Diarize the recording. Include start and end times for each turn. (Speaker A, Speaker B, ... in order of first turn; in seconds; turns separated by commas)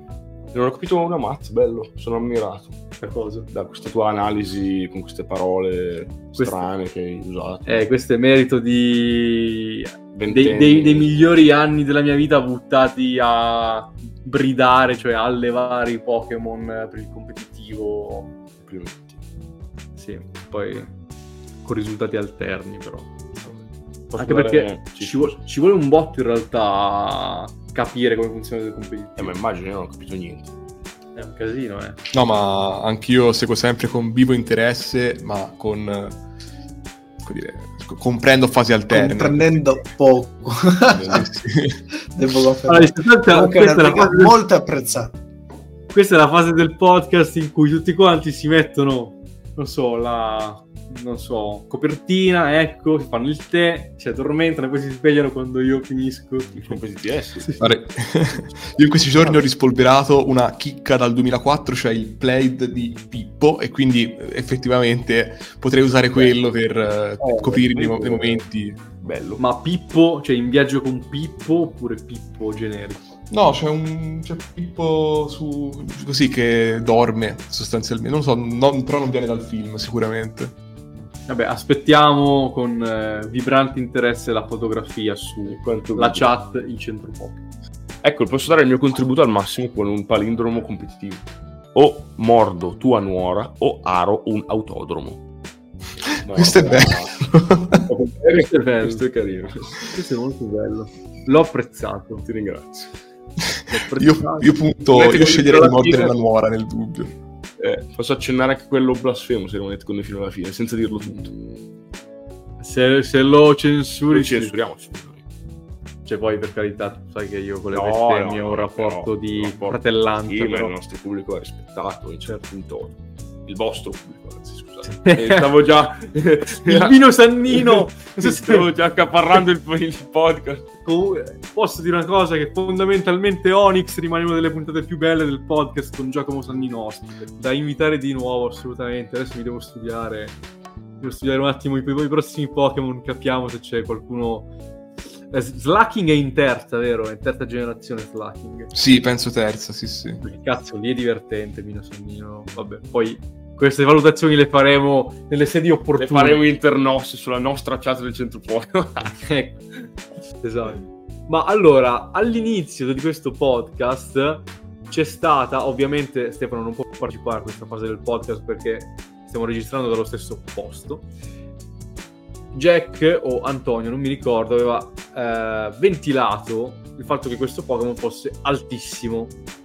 Speaker A: 0.5-2.8, Speaker B: 3.0-3.5, Speaker A: 3.5-7.9, Speaker B: 6.4-6.7, Speaker B: 7.7-18.3, Speaker A: 10.1-11.1, Speaker A: 18.6-19.2, Speaker B: 20.0-20.9, Speaker B: 21.6-23.1, Speaker A: 23.4-25.4, Speaker B: 24.1-29.4, Speaker A: 29.2-30.6, Speaker B: 31.2-32.0, Speaker C: 32.1-36.2, Speaker C: 37.2-39.6, Speaker D: 38.9-41.3, Speaker A: 41.0-41.2, Speaker C: 41.0-41.8, Speaker D: 42.1-45.2, Speaker B: 42.7-44.4, Speaker B: 45.9-56.8, Speaker A: 56.6-57.6, Speaker C: 57.6-68.8, Speaker A: 67.2-68.4, Speaker A: 69.0-69.4, Speaker B: 69.4-73.1, Speaker C: 73.3-80.5, Speaker B: 81.3-87.5, Speaker A: 85.5-86.3, Speaker A: 88.0-95.2, Speaker C: 96.1-97.8, Speaker A: 96.2-97.2, Speaker A: 97.9-99.9, Speaker B: 98.4-99.0, Speaker B: 99.9-102.3, Speaker A: 102.3-102.9, Speaker C: 103.6-107.2, Speaker B: 103.7-106.1, Speaker A: 105.0-106.1, Speaker A: 107.6-111.4, Speaker B: 111.0-111.7, Speaker B: 112.6-114.5, Speaker A: 114.1-115.2, Speaker B: 116.0-120.8, Speaker A: 117.7-130.7, Speaker B: 124.9-125.5, Speaker B: 126.5-128.6, Speaker B: 130.8-140.4, Speaker B: 141.0-144.5, Speaker B: 145.3-148.8, Speaker C: 148.7-150.2, Speaker B: 150.2-156.4, Speaker A: 156.0-159.2, Speaker B: 159.1-159.7, Speaker B: 160.4-171.1, Speaker B: 172.5-179.3